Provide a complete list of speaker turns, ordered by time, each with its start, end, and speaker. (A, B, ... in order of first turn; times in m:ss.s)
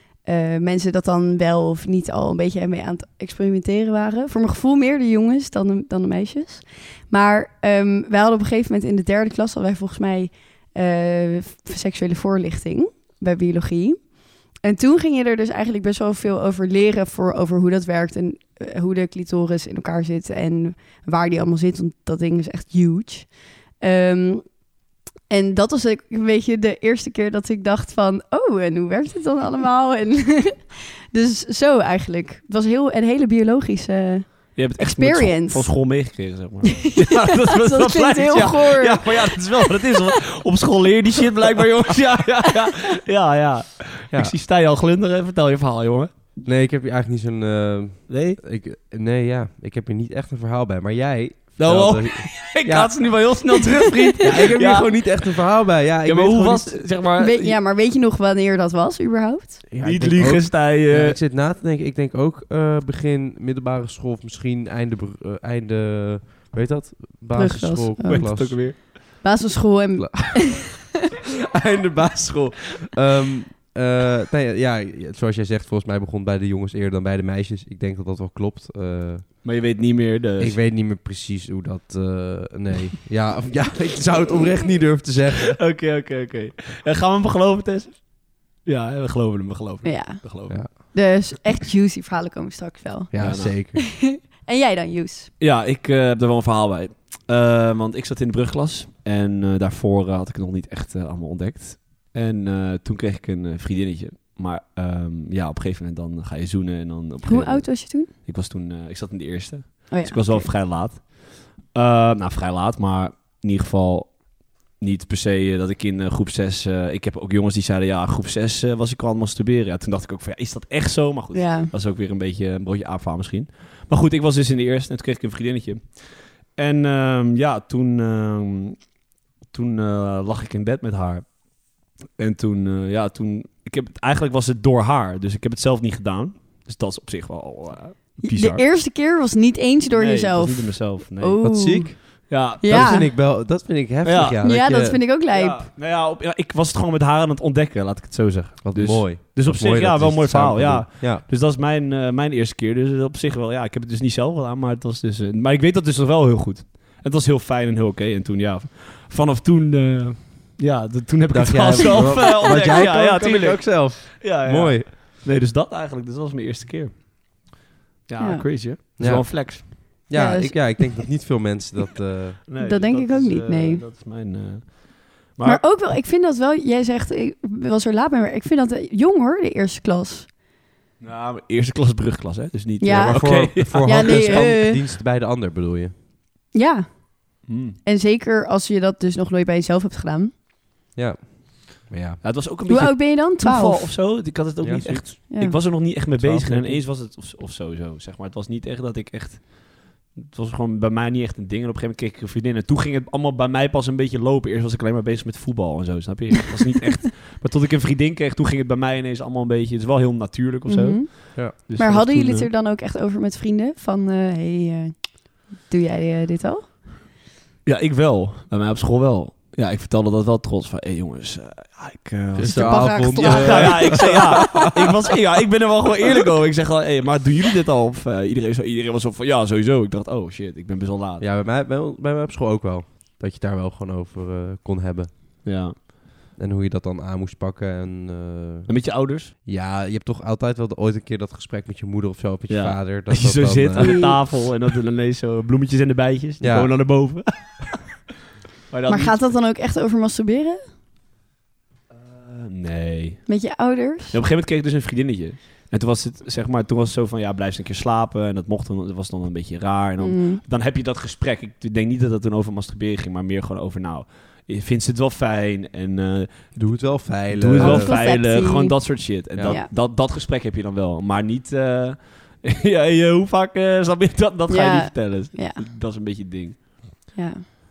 0:00.2-0:24.6 A
0:25.3-0:36.0 A
0:34.5-0:46.1 B
0:36.8-0:39.7 A
0:46.4-0:53.2 C
0:48.1-0:48.4 B
0:51.6-0:55.4 B
0:54.2-0:56.8 C
0:56.0-0:57.6 B
0:57.2-0:59.7 A
0:59.7-1:08.6 C
0:59.8-1:01.2 B
1:07.3-1:10.9 A
1:08.0-1:08.8 B
1:10.0-1:19.4 C
1:19.4-1:20.6 B
1:20.4-1:25.6 C
1:25.5-1:30.6 B
1:29.8-1:35.3 A
1:33.1-1:33.9 C
1:33.1-1:33.6 B
1:35.4-2:08.9 B
1:47.2-1:48.1 A
1:49.9-1:50.5 A
2:01.3-2:01.7 A
2:09.4-2:18.6 B
2:18.2-2:23.0 A
2:19.9-2:21.7 B
2:21.4-2:25.0 C
2:22.3-2:23.2 B
2:24.0-2:24.4 B
2:24.4-2:25.7 A
2:25.3-2:47.5 B
2:28.6-2:31.2 C
2:41.3-2:44.9 C
2:41.9-2:42.6 A
2:48.1-2:49.7 B
2:48.2-2:48.5 A
2:49.0-2:52.4 C
2:50.1-2:51.0 A
2:52.5-2:55.6 B
2:52.6-2:53.8 A
2:55.4-3:00.3 A
3:01.0-3:04.5 B
3:02.8-3:04.8 A
3:02.9-3:05.9 C
3:06.5-3:10.3 A
3:07.5-3:07.8 B
3:10.9-3:12.2 C
3:12.2-3:32.5 B
3:12.7-3:13.9 A
3:14.6-3:15.2 C
3:15.3-3:15.6 A
3:16.2-3:16.8 C
3:30.7-3:36.9 A
3:37.6-3:51.3 B
3:42.3-3:44.7 C
3:42.4-3:44.7 A
3:51.2-3:55.7 C
3:55.4-3:55.8 B
3:56.4-4:04.0 C
3:58.7-3:59.3 B
4:02.5-4:08.0 B
4:03.8-4:04.3 A
4:06.4-4:06.7 C
4:08.7-4:09.3 B
4:08.9-4:10.6 A
4:11.9-4:13.5 B
4:13.3-4:14.2 A
4:14.1-4:36.7 B
4:20.0-4:20.4 A
4:26.5-4:28.0 C
4:27.6-4:29.7 A
4:29.3-4:29.6 C
4:34.5-4:35.6 A
4:37.1-4:37.4 A